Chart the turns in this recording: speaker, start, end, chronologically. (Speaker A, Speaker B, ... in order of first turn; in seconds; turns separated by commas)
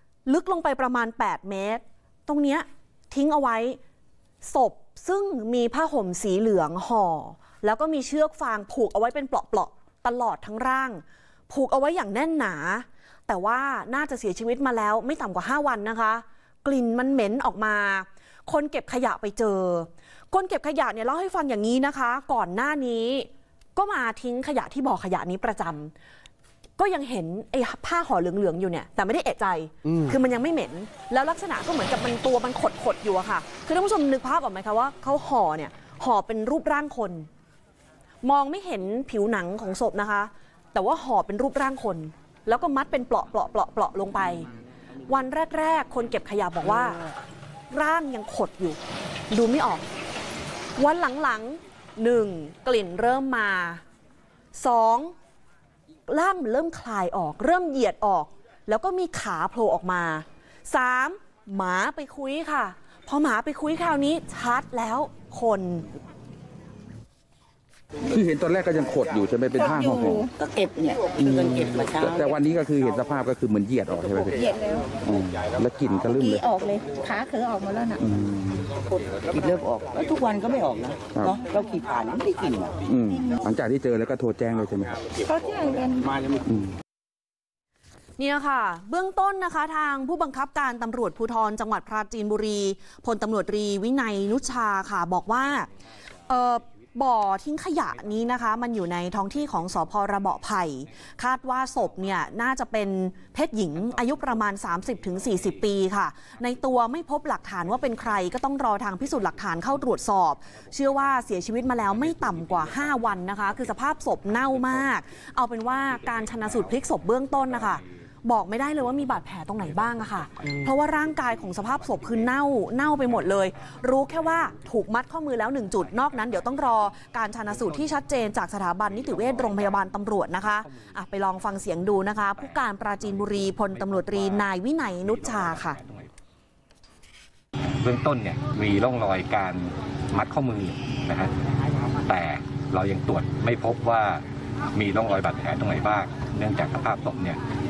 Speaker A: 0.3-3.8, Speaker A: 4.4-25.9, Speaker A: 26.8-37.3, Speaker A: 38.2-44.5, Speaker A: 45.1-47.0, Speaker A: 47.7-48.8, Speaker A: 49.3-49.9, Speaker A: 50.8-53.8, Speaker A: 54.5-55.1, Speaker A: 56.1-65.9, Speaker B: 68.1-70.3, Speaker C: 69.6-70.3, Speaker D: 70.3-72.4, Speaker B: 71.2-74.5, Speaker C: 74.4-74.9, Speaker B: 75.0-76.4, Speaker C: 76.1-78.0, Speaker B: 78.0-78.7, Speaker D: 79.3-82.8, Speaker B: 82.9-84.9, Speaker C: 85.2-86.2, Speaker A: 88.2-95.7, Speaker A: 96.3-135.8, Speaker E: 135.0-136.1, Speaker E: 137.8-141.3, Speaker E: 142.1-147.4